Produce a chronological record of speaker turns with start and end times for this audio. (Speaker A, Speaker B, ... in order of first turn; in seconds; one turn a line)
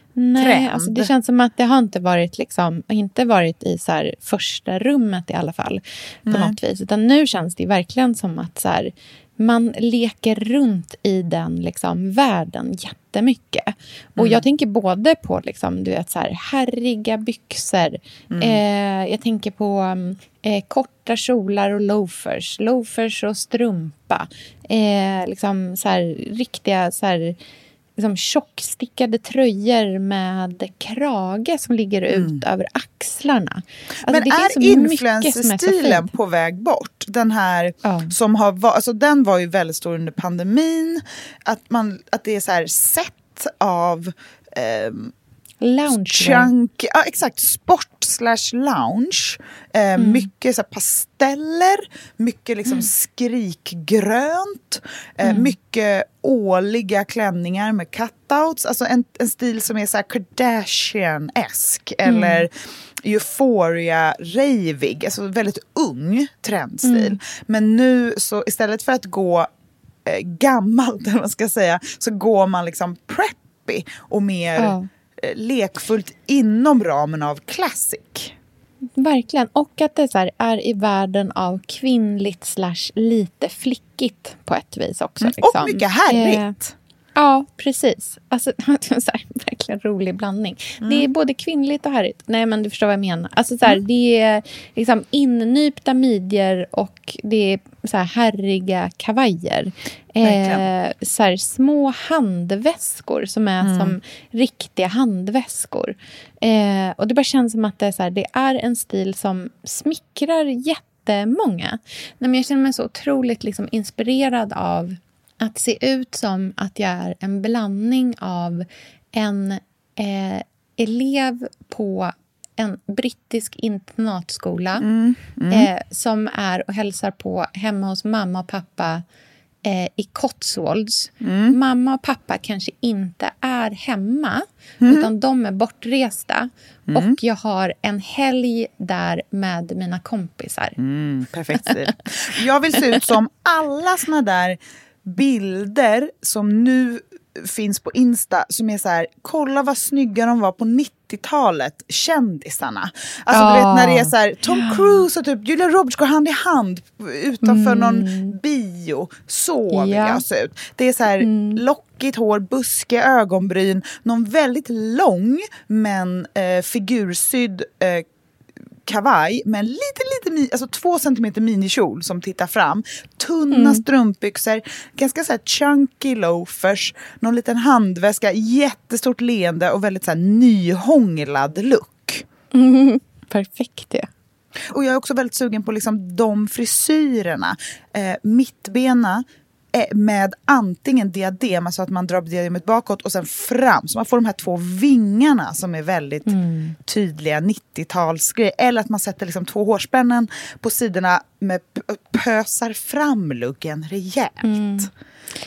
Speaker A: 0.2-27.4
Speaker B: 0.3-1.1
Speaker B: 6.3-6.6
Speaker B: 14.2-14.4
Speaker B: 18.3-18.6
Speaker A: 28.0-36.1
Speaker B: 32.1-32.4
Speaker B: 34.0-45.1
Speaker A: 37.8-38.1
Speaker A: 45.6-46.5
Speaker B: 45.9-69.5
Speaker A: 50.0-50.3
Speaker A: 55.2-55.5
Speaker A: 62.0-62.5
Speaker A: 66.8-67.2
Speaker B: 70.1-78.3
Speaker A: 74.6-74.9
Speaker A: 79.0-86.6
Speaker B: 85.2-86.8
Speaker A: 87.2-124.9
Speaker B: 90.8-91.1
Speaker B: 100.2-100.7
Speaker B: 103.6-104.0
Speaker B: 124.8-125.7
Speaker A: 125.5-129.0
Speaker A: 129.7-140.8
Speaker B: 131.2-131.6
Speaker B: 134.8-135.1
Speaker B: 136.9-137.2
Speaker B: 140.8-168.1
Speaker A: 142.7-143.1
Speaker A: 153.3-155.0
Speaker A: 157.4-158.4
Speaker A: 159.7-160.2
Speaker A: 161.2-161.6
Speaker B: 168.8-182.2
Speaker A: 173.5-173.8
Speaker A: 182.5-184.1
Speaker B: 184.7-204.9
Speaker A: 196.3-196.8
Speaker A: 204.4-204.9